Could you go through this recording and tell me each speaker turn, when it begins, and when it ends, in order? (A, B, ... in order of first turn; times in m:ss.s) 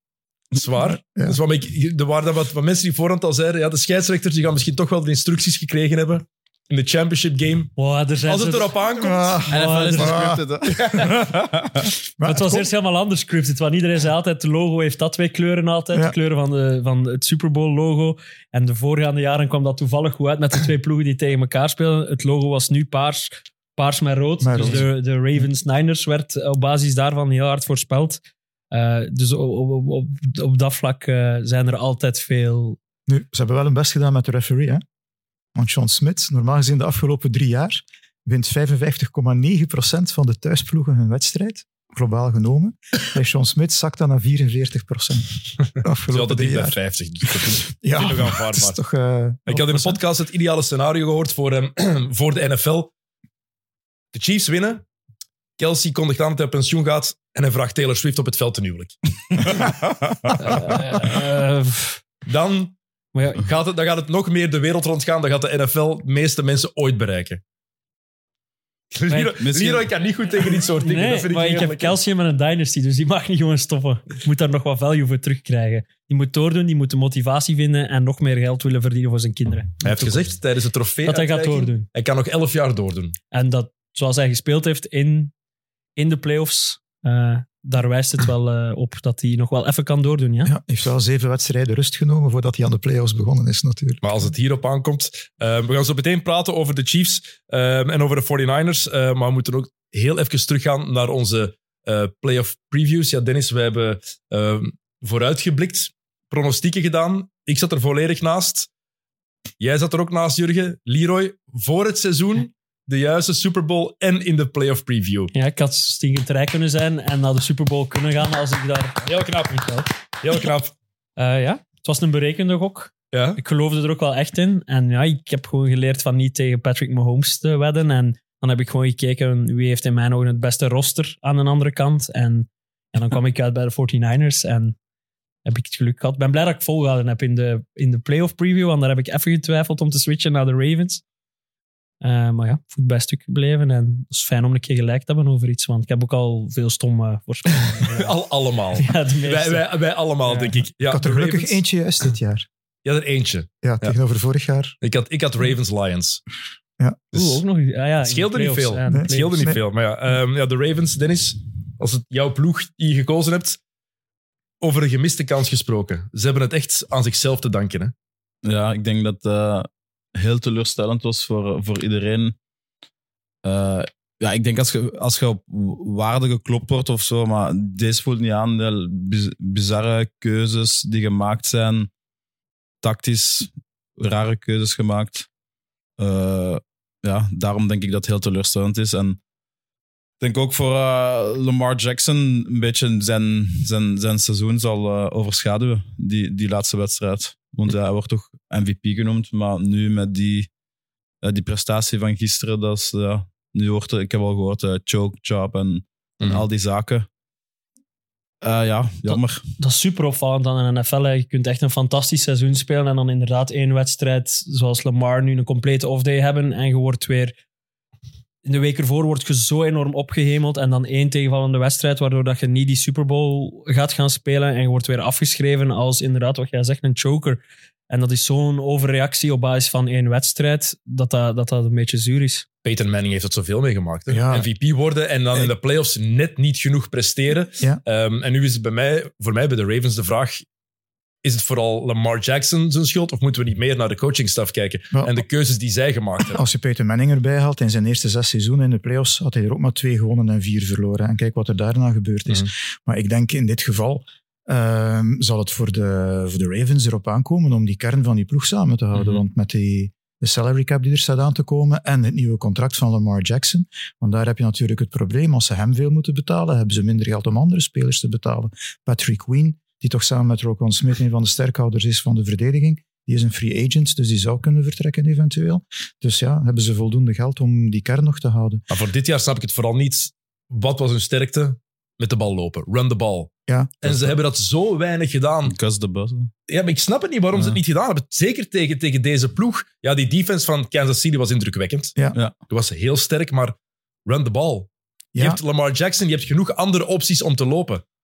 0:00.5-0:07.7 A
0:00.8-0:01.4 B
0:07.8-0:08.7 C
0:08.2-0:09.4 A
0:08.9-0:11.2 B
0:09.5-0:10.3 C
0:09.5-0:11.9 D
0:12.2-0:12.7 B
0:12.2-0:32.8 C
0:24.4-0:24.9 B
0:33.1-0:34.8 B
0:35.6-0:46.8 B
0:46.1-0:48.8 A
0:47.4-0:50.0 B
0:49.5-0:52.9 A
0:54.1-0:54.8 A
0:55.6-0:59.5 A
1:00.4-1:02.0 C
1:02.2-1:02.7 A
1:03.1-1:03.4 C
1:03.3-1:07.4 A
1:08.9-1:12.0 A
1:09.1-1:09.4 C
1:09.4-1:09.9 D
1:10.7-1:20.2 C
1:19.8-1:23.2 A
1:21.0-1:21.9 C
1:23.3-1:25.3 C
1:26.0-1:30.5 C
1:30.4-1:34.0 B
1:34.0-1:48.7 A
1:49.6-1:55.3 A
1:55.3-1:59.9 C
1:59.0-1:59.7 A
2:00.2-2:00.7 A
2:01.2-2:14.8 C
2:03.1-2:03.4 A
2:15.4-2:21.0 C
2:22.0-2:28.1 C
2:27.7-2:32.1 A
2:28.8-2:29.6 C
2:30.3-2:30.6 C
2:30.8-2:32.4 B
2:32.8-2:34.0 A
2:33.6-2:34.7 B
2:34.8-2:36.2 A
2:36.8-2:37.1 B
2:37.1-2:39.4 C
2:37.1-2:37.4 A
2:38.0-2:43.6 A
2:38.9-2:39.6 B
2:44.6-2:47.9 A
2:48.4-2:52.4 D
2:53.4-3:01.9 D
3:02.8-3:05.3 D
3:06.0-3:09.2 D
3:10.2-3:20.5 D
3:21.2-3:27.1 D
3:28.4-3:29.4 D
3:29.6-3:37.3 C
3:38.4-3:52.4 C
3:52.6-4:00.4 A
3:54.1-3:54.5 B
4:01.2-4:06.4 A
4:04.9-4:05.2 B
4:06.3-4:38.6 B
4:18.9-4:19.2 A
4:38.7-4:45.5 A
4:43.5-4:44.1 B
4:45.4-4:46.3 D
4:46.5-4:51.9 A
4:52.5-4:53.5 A
4:54.0-4:57.8 A
4:55.1-4:55.4 B